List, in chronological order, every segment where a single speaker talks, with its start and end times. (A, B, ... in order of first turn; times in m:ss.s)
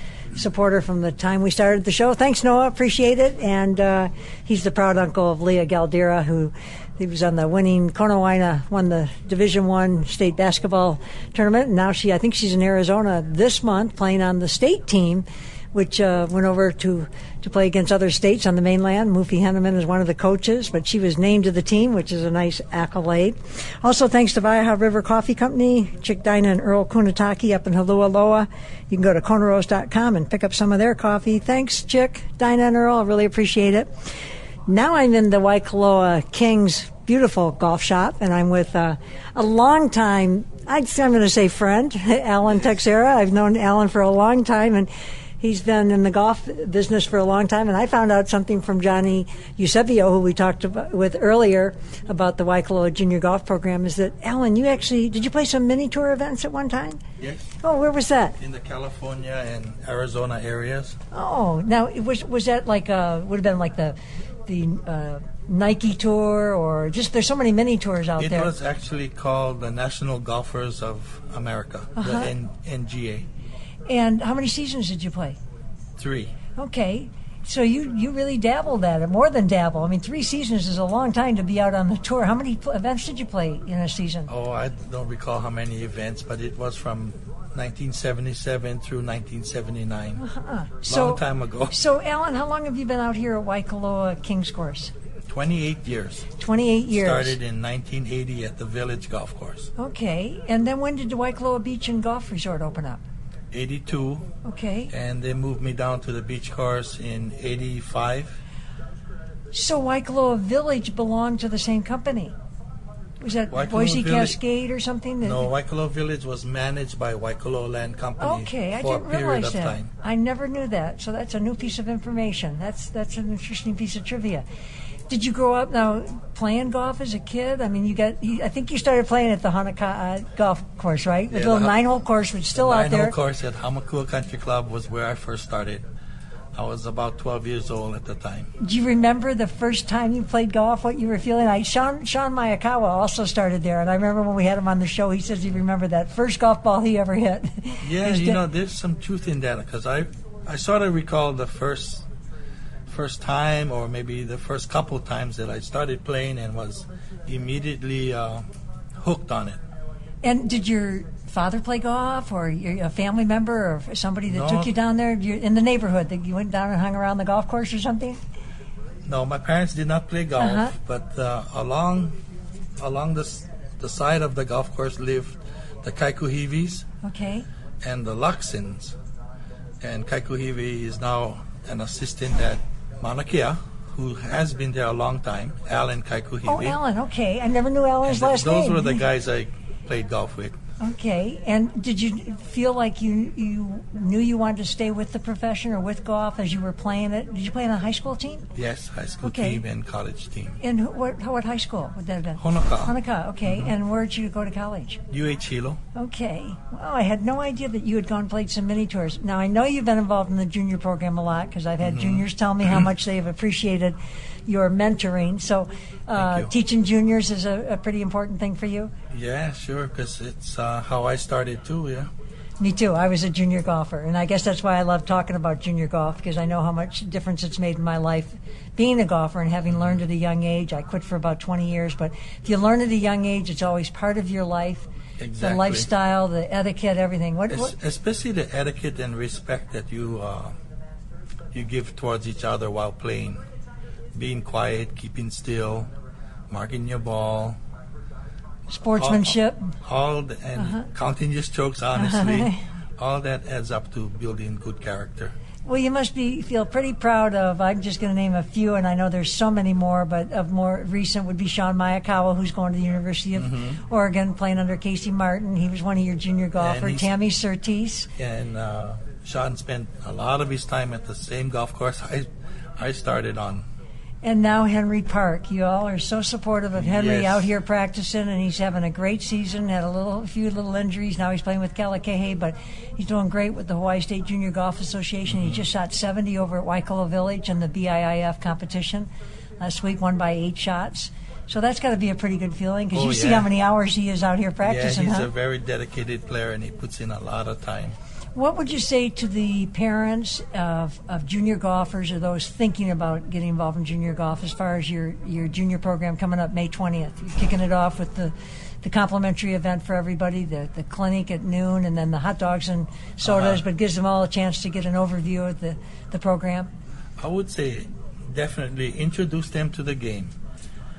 0:00.3-0:33.9 A
0:34.7-0:44.9 A
0:45.4-0:57.0 A
0:57.2-0:57.5 B
0:57.6-0:58.4 A
0:58.4-1:01.0 B
1:01.1-1:08.5 A
1:08.2-1:13.3 B
1:12.0-1:12.3 A
1:13.9-1:15.4 A
1:16.0-1:16.3 B
1:16.6-1:24.3 A
1:24.3-1:30.2 B
1:30.2-1:34.9 A
1:30.9-1:31.8 B
1:35.3-1:36.3 B
1:36.4-1:37.4 A
1:36.9-1:39.7 B
1:39.8-1:43.0 A
1:43.5-1:44.3 B
1:44.4-1:44.9 A
1:44.9-1:48.4 B
1:49.5-1:52.4 A
1:53.2-1:55.5 A
1:53.5-1:54.4 B
1:55.2-1:59.9 B
1:58.2-2:04.4 A
2:05.1-2:13.2 A
2:11.3-2:11.8 B
2:12.5-2:15.8 B
2:16.6-2:18.5 B
2:18.6-2:28.4 A
2:27.8-2:32.1 B
2:32.9-2:38.4 B
2:39.0-2:39.6 B
2:40.2-2:48.2 A
2:44.3-2:44.7 B
2:49.1-2:52.2 B
2:50.4-2:50.7 A
2:52.8-2:56.8 B
2:57.0-2:57.5 A
2:57.8-2:59.0 B
2:59.8-3:06.8 B
3:06.5-3:09.0 A
3:08.0-3:10.6 B
3:10.8-3:18.4 A
3:18.6-3:20.6 B
3:19.2-3:19.6 A
3:20.6-3:25.0 A
3:22.4-3:22.9 B
3:23.5-3:23.7 B
3:25.1-3:25.8 B
3:25.9-3:38.9 A
3:31.8-3:32.2 B
3:36.2-3:36.5 B
3:39.1-3:42.1 B
3:42.6-3:54.9 A
3:55.2-3:55.9 B
3:55.4-3:57.7 A
3:57.5-4:00.6 B
4:01.5-4:03.4 B
4:04.2-4:05.9 B
4:06.5-4:07.6 B
4:08.7-4:09.7 A
4:08.9-4:15.3 B
4:10.6-4:10.9 A
4:12.0-4:12.6 A
4:15.6-4:28.1 A
4:23.4-4:23.8 B
4:26.6-4:27.1 B
4:28.2-4:33.6 B
4:34.2-4:49.1 A
4:36.8-4:37.5 B
4:45.3-4:45.6 B
4:49.6-4:55.3 A
4:52.9-4:53.5 B
4:54.6-4:58.0 B
4:58.4-5:16.7 A
5:13.2-5:13.6 B
5:17.2-5:20.3 B